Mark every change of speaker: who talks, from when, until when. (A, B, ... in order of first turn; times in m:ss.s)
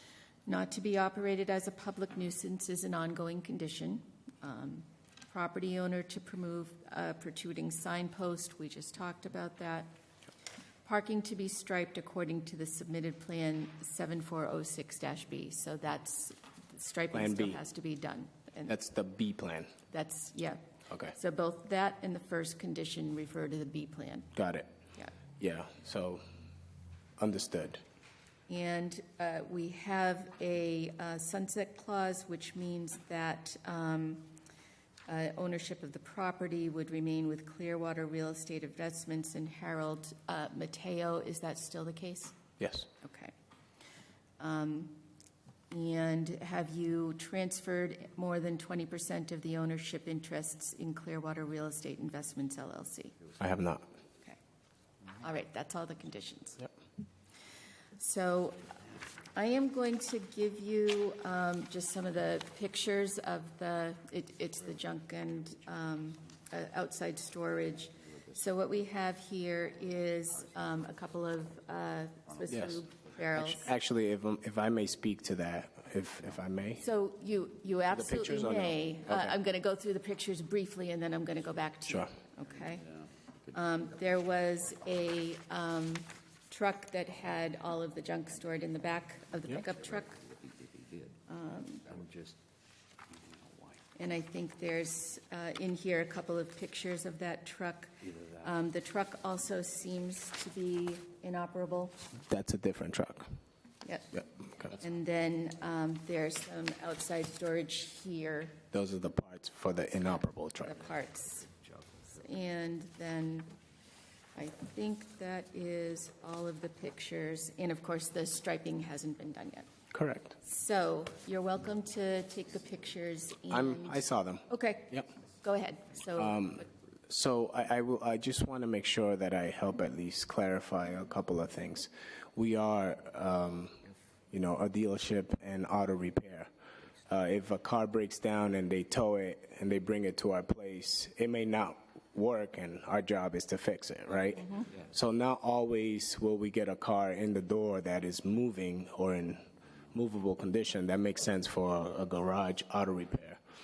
0:00.4-0:09.9 A
0:10.8-0:18.8 A
0:17.1-0:17.6 B
0:18.7-0:19.7 B
0:19.9-0:20.6 A
0:20.9-0:21.1 B
0:21.1-0:24.3 A
0:24.4-0:24.7 B
0:25.4-0:26.2 B
0:27.2-0:27.8 B
0:28.5-0:34.3 A
0:35.1-0:42.4 A
0:42.6-0:42.9 B
0:43.0-0:43.3 A
0:44.4-0:45.0 A
0:45.7-0:53.2 A
0:53.4-0:53.8 B
0:55.2-0:56.7 A
0:58.0-0:58.7 A
0:59.3-1:13.7 A
1:05.3-1:06.4 C
1:07.5-1:08.8 C
1:09.6-1:11.5 C
1:12.2-1:13.4 C
1:12.5-1:12.8 B
1:13.3-1:16.8 B
1:16.8-1:22.8 A
1:17.9-1:19.4 B
1:21.9-1:22.1 B
1:22.4-1:23.6 C
1:23.5-1:30.2 A
1:29.5-1:31.2 C
1:31.3-1:31.8 A
1:31.8-1:32.4 C
1:33.1-1:33.8 C
1:34.0-1:42.0 A
1:38.0-1:38.5 C
1:42.3-1:43.3 B
1:43.8-1:48.6 A
1:48.7-1:50.8 B
1:50.6-1:51.4 A
1:51.0-1:52.2 C
1:52.1-1:53.5 A
1:54.3-1:59.7 A
1:59.9-2:00.4 B
2:00.4-2:06.6 A
2:03.5-2:05.1 B
2:06.2-2:16.5 B
2:17.1-2:33.4 B